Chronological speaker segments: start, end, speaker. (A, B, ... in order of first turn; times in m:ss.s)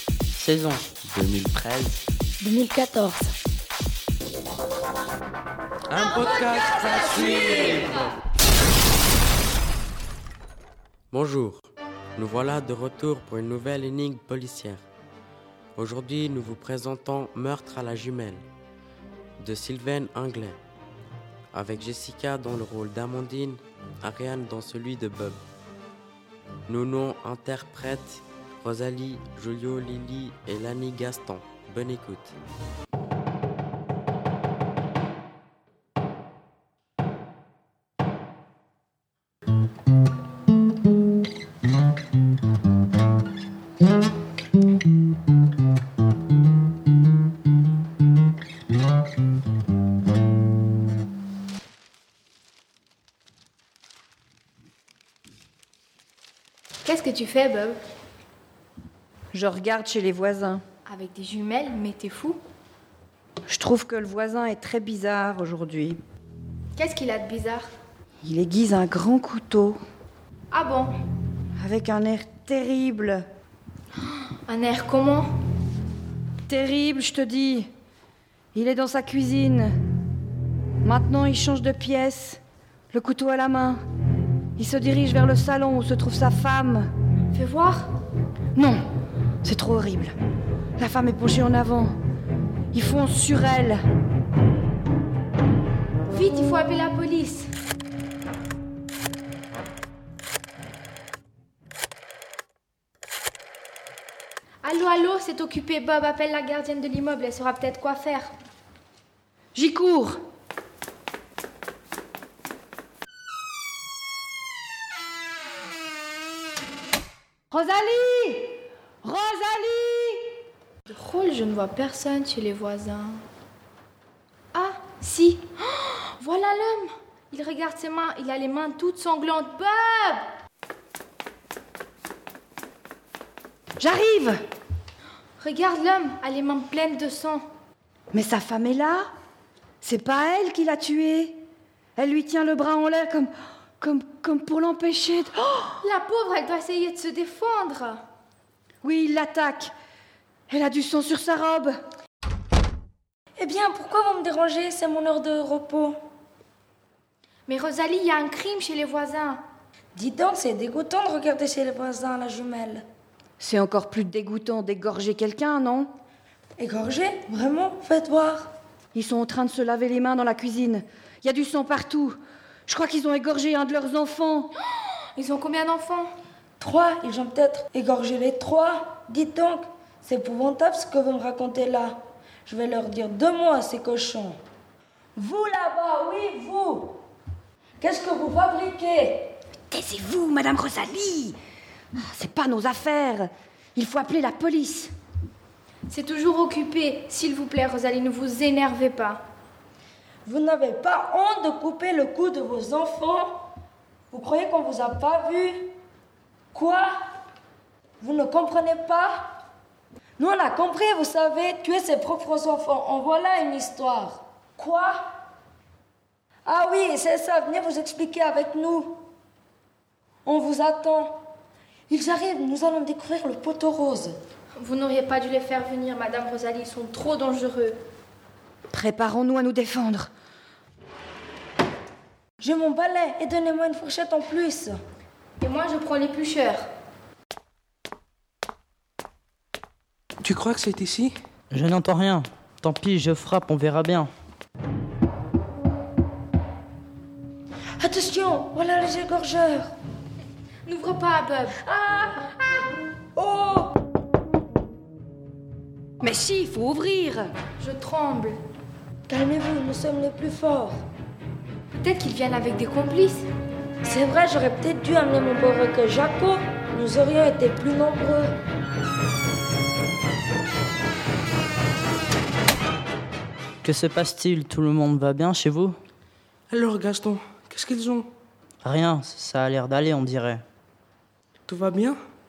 0:00.3-0:00.8 A
0:01.0-0:02.0 B
0:02.4-0:03.3 C
0:05.9-0:07.9 B
0:06.5-0:07.5 D
0:11.1-0:14.8 B
0:15.8-0:18.4 B
0:19.4-0:20.6 B
0:21.5-0:25.4 B
0:26.7-0:32.3 B
0:56.8-0:57.8 E
0:59.3-1:00.6 F
1:00.8-1:02.4 E
1:03.5-1:06.0 F
1:06.8-1:07.7 E
1:08.2-1:09.8 F
1:10.5-1:10.9 E
1:11.6-1:13.2 F
1:14.4-1:15.3 E
1:16.5-1:17.7 F
1:18.5-1:19.7 F
1:20.8-1:22.4 F
1:22.9-1:23.8 F
1:24.6-1:26.9 F
1:27.3-1:27.9 E
1:28.5-1:28.8 F
1:29.4-1:30.2 F
1:30.8-1:32.0 F
1:32.7-1:33.8 F
1:36.1-1:37.5 E
1:44.6-1:48.3 E
1:49.5-1:50.2 F
1:57.5-2:00.2 F
2:00.9-2:03.2 E
2:04.5-2:10.3 E
2:13.8-2:14.4 F
2:15.4-2:17.4 E
2:18.1-2:19.0 F
2:19.8-2:21.4 F
2:22.0-2:25.8 F
2:25.8-2:28.0 E
2:28.8-2:29.7 F
2:30.5-2:31.8 F
2:33.4-2:36.0 C
2:37.5-2:39.4 E
2:39.9-2:42.8 C
2:43.4-2:45.9 F
2:46.6-2:48.5 C
2:48.9-2:52.2 F
2:52.7-2:54.5 F
2:55.2-2:56.1 E
2:56.6-3:04.4 C
3:05.2-3:07.0 C
3:07.8-3:09.3 C
3:09.7-3:11.4 F
3:12.0-3:14.9 F
3:15.9-3:19.2 E
3:20.2-3:23.3 C
3:24.1-3:25.7 C
3:26.5-3:26.9 C
3:28.0-3:29.3 C
3:30.2-3:35.0 C
3:36.4-3:39.0 C
3:40.2-3:41.2 C
3:41.9-3:44.2 C
3:44.5-3:47.8 E
3:48.7-3:50.1 F
3:52.4-3:54.8 C
3:55.4-3:56.6 E
4:00.2-4:01.1 D
4:01.5-4:04.1 A
4:07.8-4:09.7 C
4:10.6-4:11.6 E
4:11.6-4:12.4 C
4:13.2-4:13.7 C
4:16.0-4:17.3 F
4:17.6-4:18.4 E
4:19.1-4:20.8 C
4:21.8-4:23.3 E
4:23.8-4:28.3 C
4:33.6-4:35.8 A
4:36.5-4:38.1 D
4:38.6-4:40.4 A
4:41.5-4:42.0 D